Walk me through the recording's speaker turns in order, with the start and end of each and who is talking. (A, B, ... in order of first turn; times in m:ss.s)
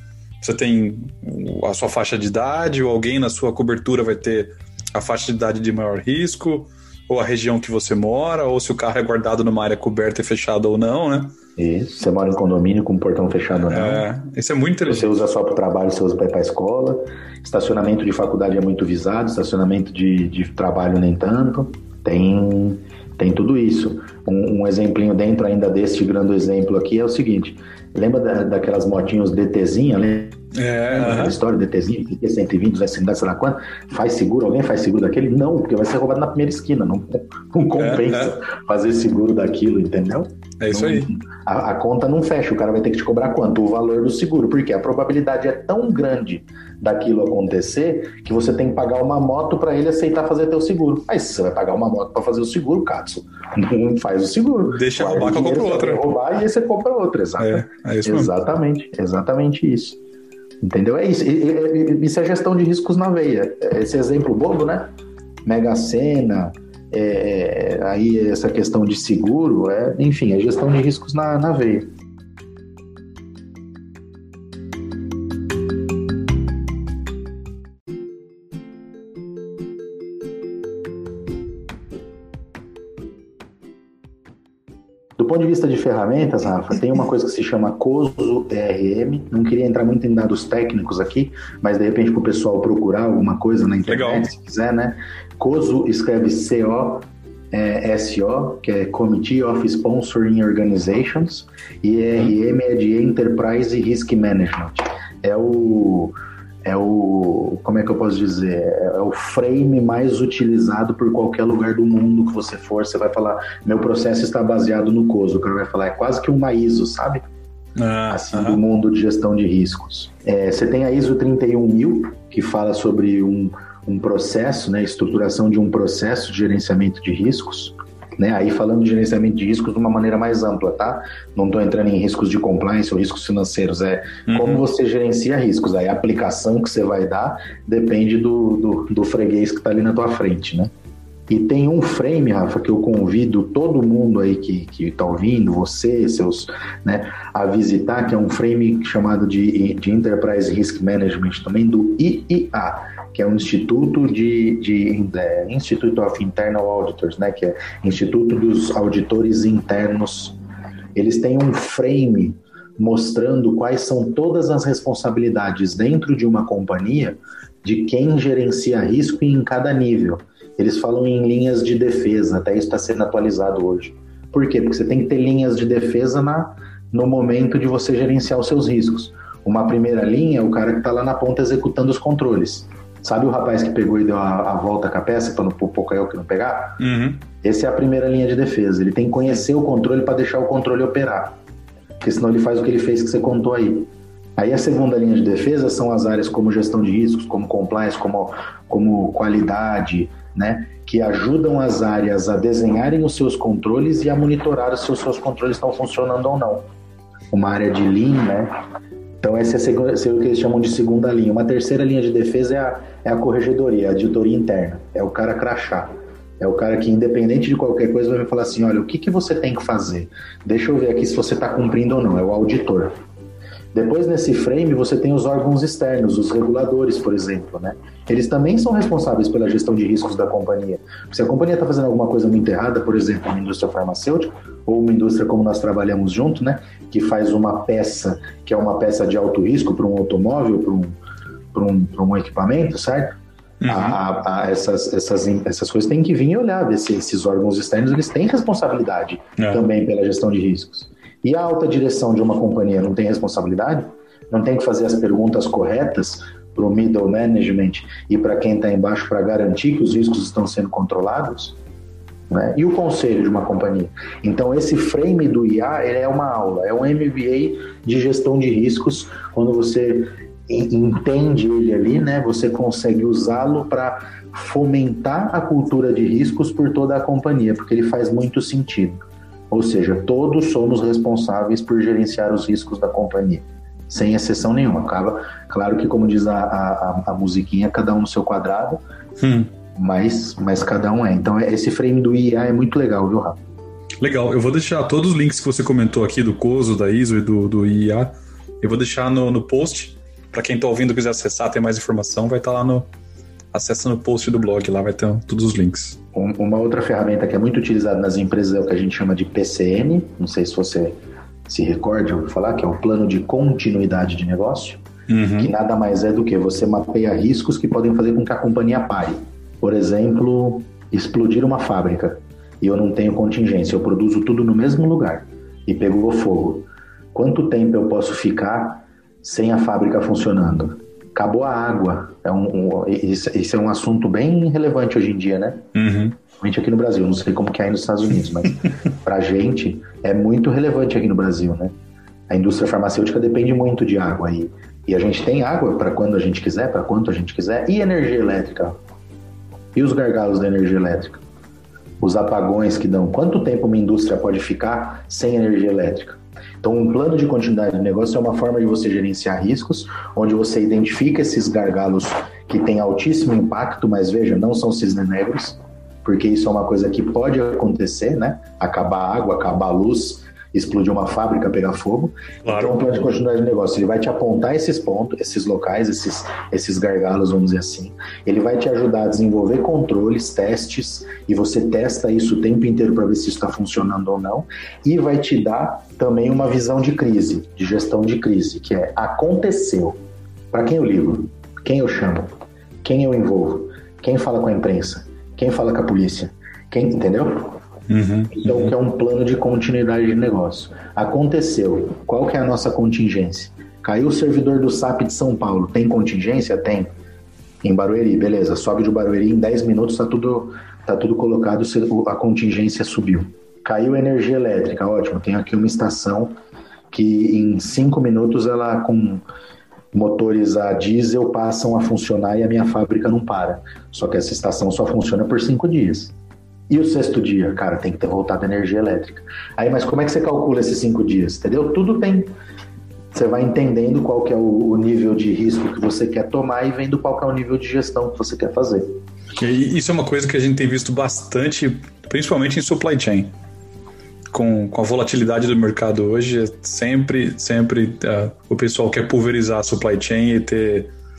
0:00.4-0:11.3 A
0:11.6-0:14.0 B
0:13.7-0:15.1 A
0:14.9-1:00.0 B
0:30.5-0:31.4 A
0:37.8-0:38.3 A
0:40.6-0:41.1 A
0:54.7-0:56.1 A
0:57.4-0:58.3 A
1:00.6-1:04.9 B
1:05.4-1:11.9 B
1:25.2-1:57.2 B
1:33.9-1:34.3 A
1:57.8-1:58.6 A
1:58.1-2:20.7 B
2:14.3-2:14.6 A
2:21.3-2:40.4 B
2:41.0-3:06.8 B
3:06.8-3:07.2 A
3:07.4-3:11.4 B
3:12.0-3:26.6 B
3:27.3-3:28.5 B
3:29.2-3:42.9 B
3:43.7-4:00.9 B
4:01.5-4:21.6 B
4:03.6-4:04.0 A
4:09.4-4:09.6 A
4:22.3-4:39.0 B
4:39.5-4:48.8 B
4:49.2-4:49.5 A
4:49.7-4:53.4 B
4:54.0-5:02.9 A
5:03.5-5:06.0 A
5:06.1-5:14.8 B
5:15.1-5:15.5 A
5:15.4-5:35.7 B
5:35.7-5:36.2 A
5:36.4-5:41.7 B
5:42.3-5:48.8 B
5:49.7-5:51.2 B
5:52.0-6:30.0 B
6:12.4-6:12.8 A
6:30.5-6:32.3 B
6:32.8-6:37.6 B
6:37.9-6:38.7 A
6:38.3-6:46.9 B
6:47.6-6:56.3 B
6:56.9-6:59.2 B
6:59.9-7:06.1 B
7:06.7-7:12.3 B
7:13.1-7:18.9 B
7:19.4-7:23.3 A
7:24.3-7:30.9 A